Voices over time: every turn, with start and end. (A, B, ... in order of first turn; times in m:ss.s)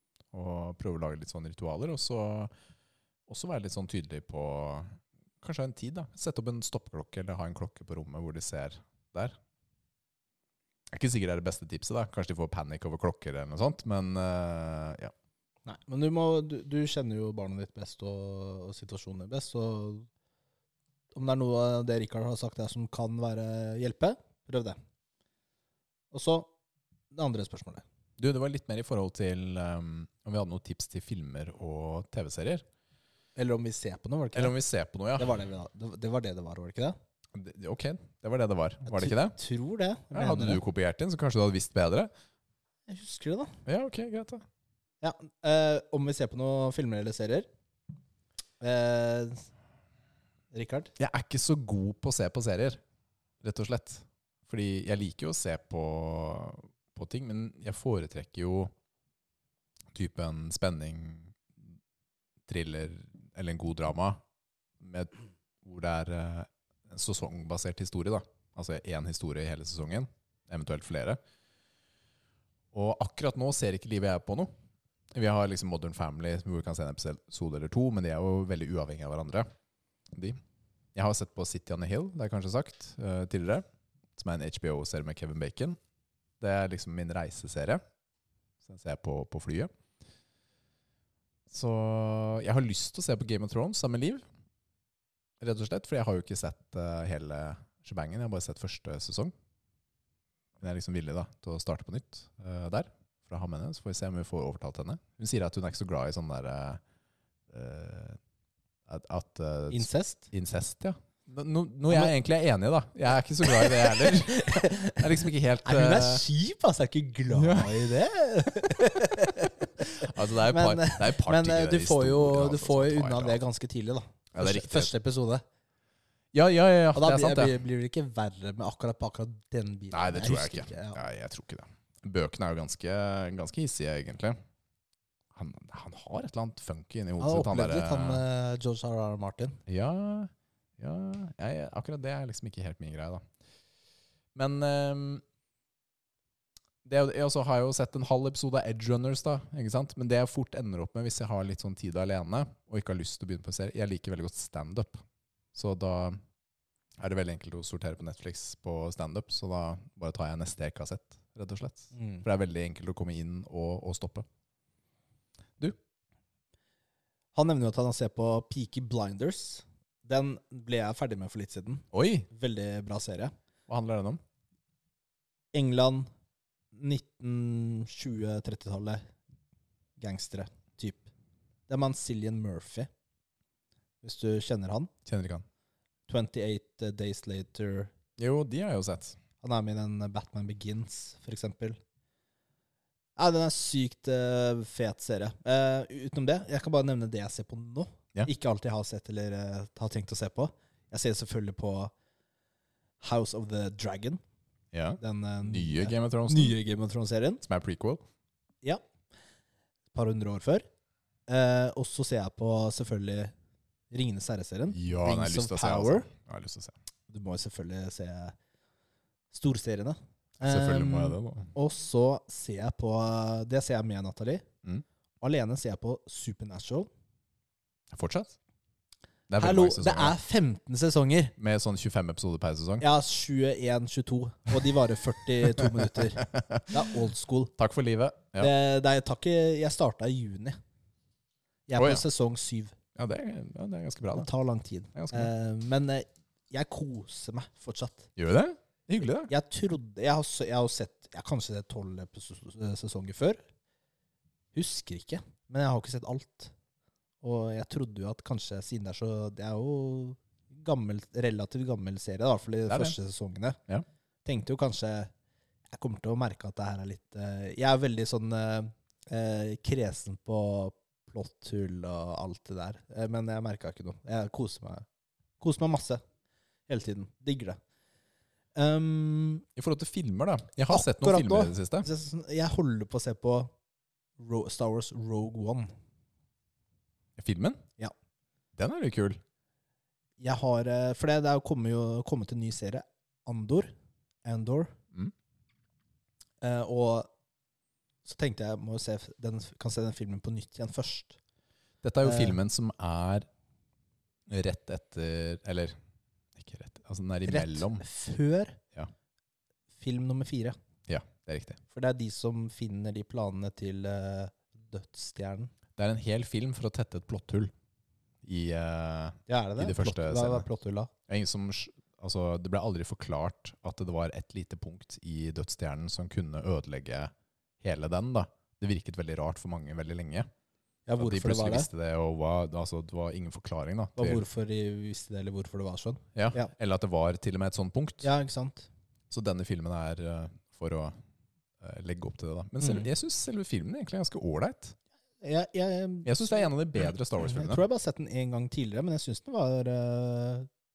0:00.3-0:02.5 A
0:03.3-0:09.4 A
0:10.9-0:15.1 A
0:15.7-0:20.1 B
0:21.1-0:24.8 B
0:26.1-0:26.5 B
0:27.1-0:27.8 B
0:28.2-0:32.6 A
0:33.4-0:34.6 B
0:34.4-0:35.4 A
0:35.2-0:37.0 B
0:37.3-0:39.4 A
0:38.9-0:40.6 B
0:40.1-0:42.1 A
0:42.9-0:43.6 B
0:43.7-0:44.4 A
0:45.0-0:47.5 B
0:48.6-0:49.4 B
0:50.5-0:50.9 B
0:51.0-0:52.8 A
0:53.4-0:58.7 A
0:59.9-1:01.4 A
1:02.5-1:04.2 A
1:04.8-1:11.2 A
1:12.7-1:14.5 A
1:15.1-1:19.5 A
1:20.1-1:20.4 A
1:21.0-1:23.6 A
1:24.2-1:25.8 A
1:26.4-1:27.8 A
1:28.6-1:29.7 A
1:31.5-1:34.2 A
1:35.4-1:39.3 A
1:40.6-1:46.8 A
1:47.5-1:48.2 A
1:48.9-1:56.2 A
1:49.7-1:50.3 B
1:53.4-1:55.0 B
1:55.6-2:05.4 B
1:57.3-1:57.9 A
1:59.8-2:03.4 A
2:04.3-2:04.9 A
2:06.3-2:07.6 A
2:07.0-2:11.0 B
2:09.9-2:14.4 A
2:15.3-2:18.2 A
2:17.2-2:19.6 B
2:19.7-2:23.2 A
2:24.4-2:25.2 A
2:26.8-2:35.0 A
2:35.5-2:36.2 A
2:37.0-2:44.3 A
2:41.9-2:42.2 B
2:47.3-2:53.3 B
2:51.9-2:52.3 A
2:53.7-2:54.2 A
2:55.5-2:56.1 B
2:56.7-2:59.1 B
3:00.0-3:01.1 B
3:01.7-3:02.9 B
3:04.0-3:04.9 B
3:05.1-3:05.4 A
3:06.1-3:07.9 B
3:08.2-3:09.2 A
3:09.4-3:11.8 B
3:13.2-3:21.9 B
3:23.0-3:24.2 B
3:24.7-3:26.6 A
3:25.0-3:27.4 B
3:27.4-3:28.0 A
3:29.9-3:30.6 B
3:31.3-3:33.3 B
3:33.9-3:36.1 B
3:34.7-3:36.8 A
3:37.1-3:38.4 B
3:39.3-3:44.4 B
3:40.4-3:41.5 A
3:45.2-3:46.9 B
3:47.9-3:48.4 A
3:49.3-3:50.2 A
3:49.4-3:51.3 B
3:51.4-3:52.9 A
3:52.8-3:57.5 B
3:55.6-3:56.8 A
3:57.6-3:58.5 A
3:58.4-4:00.6 B
4:01.7-4:02.8 B
4:01.8-4:02.0 A
4:03.0-4:04.3 A
4:04.2-4:08.1 B
4:05.0-4:05.3 A
4:08.2-4:09.3 A
4:09.3-4:13.4 B
4:14.5-4:16.5 B
4:17.2-4:23.6 B
4:22.7-4:23.0 A
4:24.2-4:25.1 B
4:25.7-4:34.9 B
4:35.4-4:36.0 B
4:36.7-4:37.6 B
4:38.6-4:39.4 B
4:39.6-4:41.9 A
4:40.7-4:43.5 B
4:44.2-4:45.7 B
4:47.2-4:47.7 A
4:48.6-4:49.2 A
4:50.2-4:53.7 B
4:54.3-4:54.8 B
4:56.4-4:57.1 B
4:58.0-5:01.2 B
5:01.8-5:03.3 A
5:02.0-5:02.4 B
5:04.3-5:05.8 A
5:06.4-5:07.8 A
5:07.3-5:08.6 B
5:09.8-5:10.6 B
5:10.9-5:11.6 A
5:11.7-5:15.5 B
5:15.8-5:17.5 A
5:18.2-5:20.5 A
5:19.3-5:20.9 B
5:21.1-5:30.3 A
5:30.9-5:31.7 B
5:31.0-5:34.2 A
5:34.0-5:36.5 B
5:36.2-5:38.1 A
5:38.0-5:38.7 B
5:39.1-5:41.0 A
5:41.6-5:44.8 A
5:42.6-5:42.9 B
5:45.2-5:46.4 B
5:46.0-5:47.6 A
5:47.2-5:50.5 B